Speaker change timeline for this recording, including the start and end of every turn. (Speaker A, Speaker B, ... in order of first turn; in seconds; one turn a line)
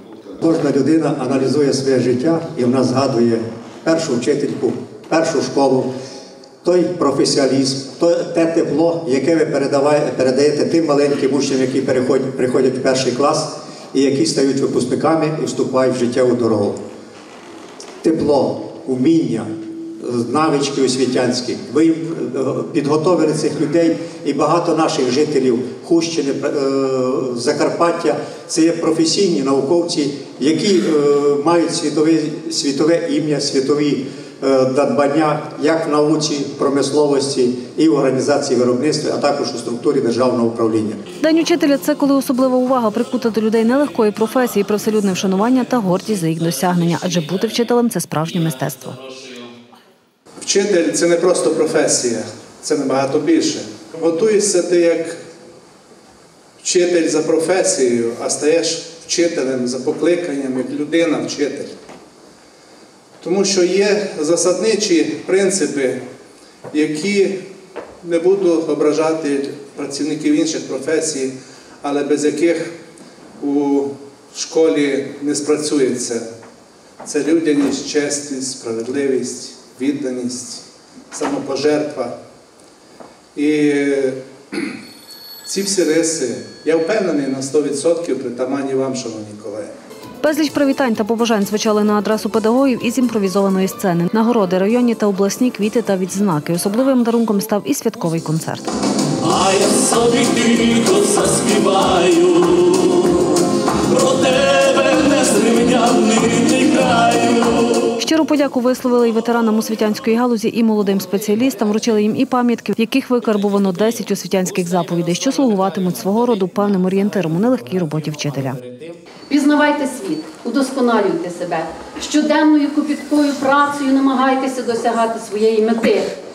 Speaker A: 0.4-5.9
Speaker A: 6.6-16.8
Speaker A: 18.0-41.0
Speaker B: 41.2-49.0
Speaker C: 50.4-55.2
Speaker C: 56.6-61.7
Speaker C: 63.2-66.0
Speaker C: 66.7-67.4
Speaker C: 68.0-72.8
Speaker C: 73.4-76.2
Speaker C: 77.0-82.1
Speaker C: 83.3-84.8
Speaker C: 85.5-89.7
Speaker B: 90.2-98.7
Speaker D: 99.2-107.8
Speaker B: 107.9-118.6
Speaker E: 119.3-126.1